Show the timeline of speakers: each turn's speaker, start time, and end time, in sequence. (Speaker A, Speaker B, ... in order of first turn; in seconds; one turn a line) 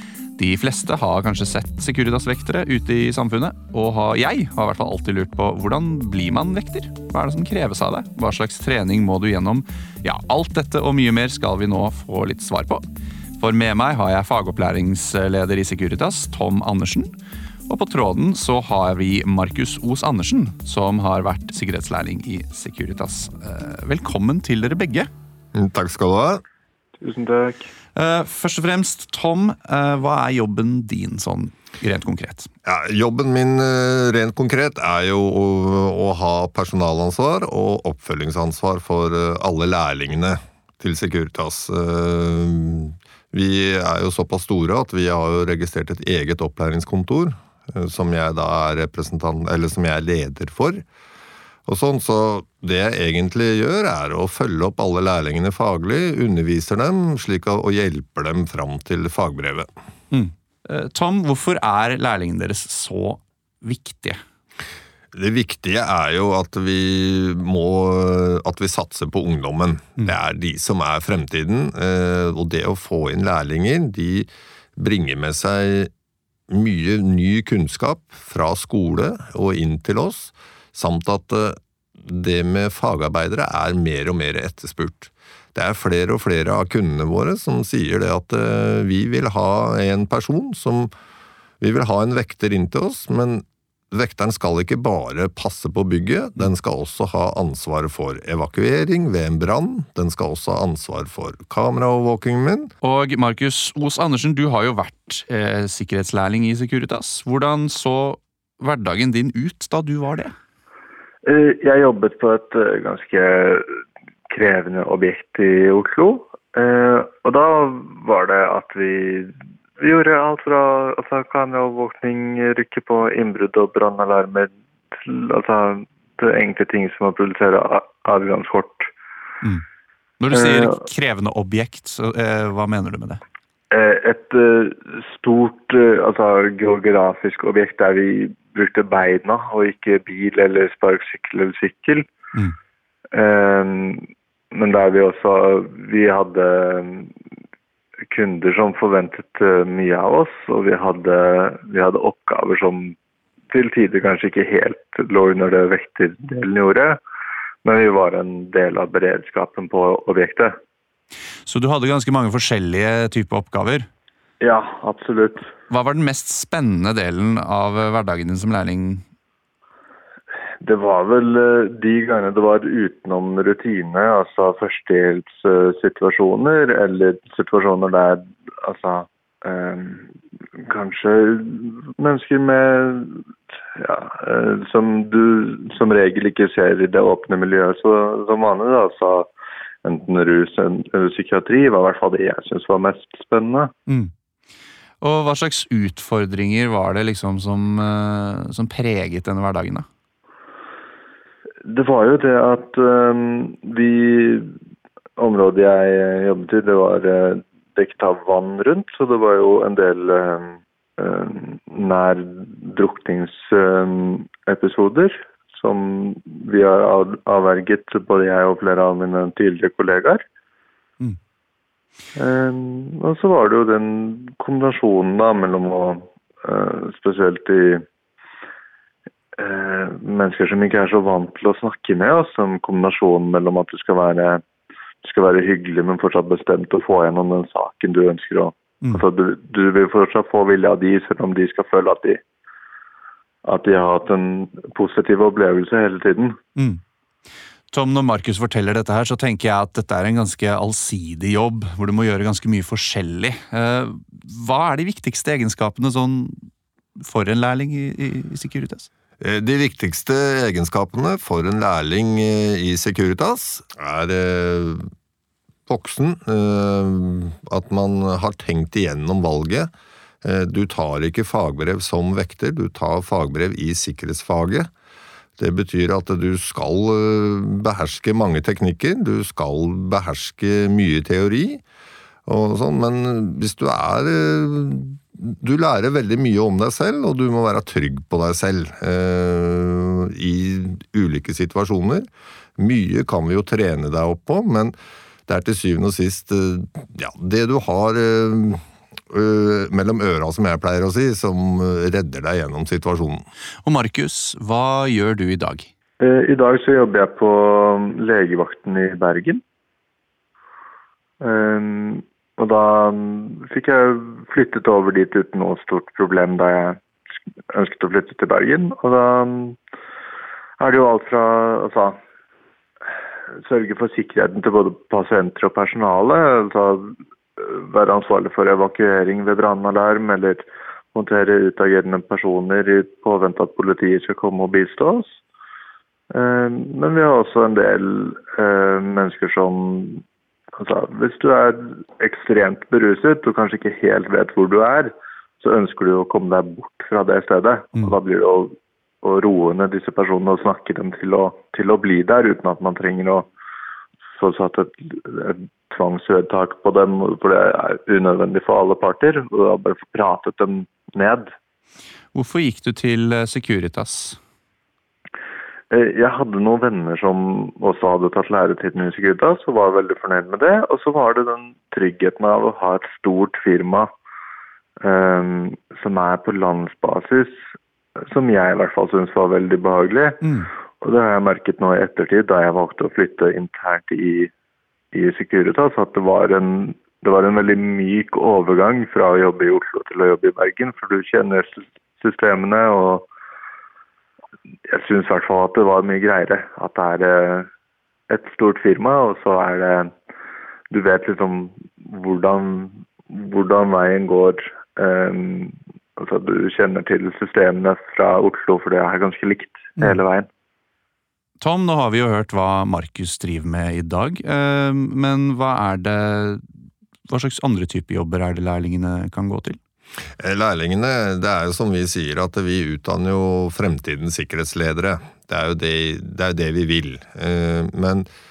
Speaker A: 0.4-12.8
Speaker A: 13.4-17.1
Speaker A: 17.7-25.1
Speaker B: 25.5-26.4
Speaker C: 27.0-27.7
Speaker A: 27.9-32.5
Speaker B: 32.6-50.8
Speaker B: 51.7-59.7
Speaker A: 60.1-64.2
Speaker B: 65.1-75.9
Speaker B: 76.5-90.9
Speaker B: 91.6-102.7
Speaker A: 102.8-110.3
Speaker C: 111.2-128.9
Speaker A: 130.2-133.2
Speaker C: 130.3-130.7
Speaker C: 133.7-142.1
Speaker C: 143.1-147.1
Speaker C: 148.1-153.0
Speaker C: 153.5-157.0
Speaker C: 157.6-160.6
Speaker A: 161.5-163.9
Speaker C: 164.4-165.5
Speaker A: 165.7-169.0
Speaker C: 170.6-189.3
Speaker C: 189.8-193.7
Speaker A: 193.9-194.1
Speaker A: 195.0-199.9
Speaker C: 201.7-204.5
Speaker C: 205.2-220.2
Speaker C: 222.2-227.8
Speaker C: 229.4-234.4
Speaker C: 235.0-242.2
Speaker C: 243.4-246.4
Speaker A: 246.6-246.8
Speaker A: 247.7-258.9
Speaker B: 259.2-264.9
Speaker B: 265.7-269.7
Speaker B: 270.2-274.7
Speaker B: 275.4-281.6
Speaker B: 282.3-292.1
Speaker B: 292.6-294.7
Speaker B: 295.3-303.3
Speaker A: 303.6-305.7
Speaker C: 306.0-309.4
Speaker C: 311.2-316.8
Speaker C: 317.5-319.6
Speaker C: 320.6-322.0
Speaker C: 323.4-335.2
Speaker C: 336.1-340.0
Speaker C: 340.6-353.3
Speaker C: 354.2-361.3
Speaker A: 362.1-364.2
Speaker C: 365.7-373.9
Speaker C: 374.8-377.5
Speaker C: 378.0-380.3
Speaker A: 380.2-380.5
Speaker C: 380.8-384.3
Speaker C: 384.9-393.1
Speaker C: 394.7-397.5
Speaker C: 398.1-399.9
Speaker C: 400.7-410.3
Speaker A: 411.4-416.4
Speaker A: 417.1-419.6
Speaker B: 420.2-428.1